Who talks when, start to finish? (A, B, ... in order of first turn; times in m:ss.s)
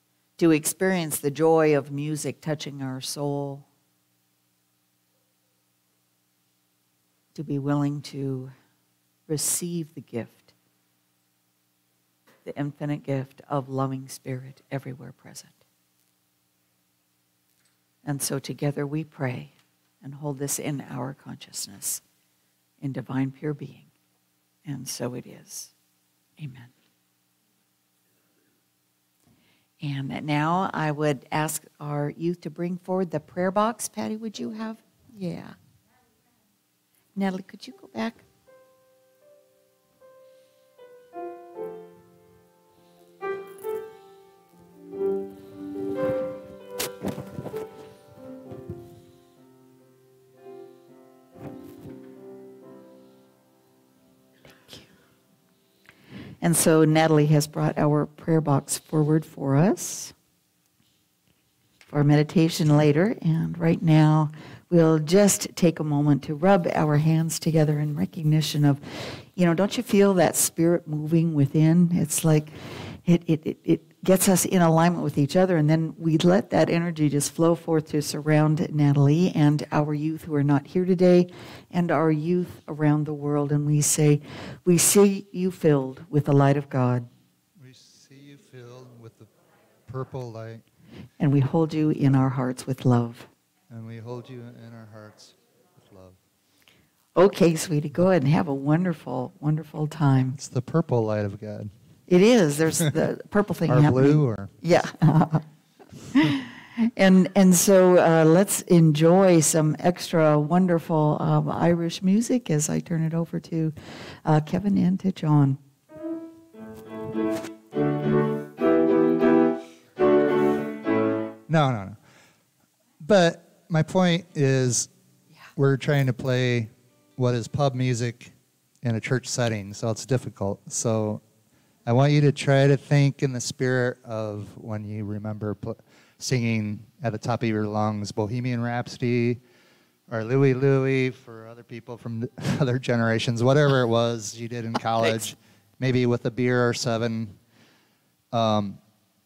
0:00.4-0:03.6 A
0:07.3-0:08.5 A
0:09.3-0:10.5 A
0:12.4-0:15.6 A
0:18.0-0:22.0 A
0:22.8-0:23.9 A
0:24.6-0:25.7 A
0:26.4-0:26.7 A
0:29.8-0:35.6 A
0:37.1-0:38.2 A
0:56.4-1:00.1 A
1:01.9-1:27.1 A
1:27.6-1:29.3 B
1:29.8-1:30.6 B
1:31.2-1:33.3 A
1:33.7-1:36.2 B
1:37.1-1:40.4 A
1:40.3-1:41.7 B
1:42.1-1:45.4 A
1:43.7-1:44.5 B
1:46.1-1:55.6 A
2:01.5-2:02.0 B
2:03.0-2:04.9 B
2:05.6-2:11.2 B
2:11.8-2:19.4 B
2:20.1-2:27.4 B
2:28.3-2:28.8 B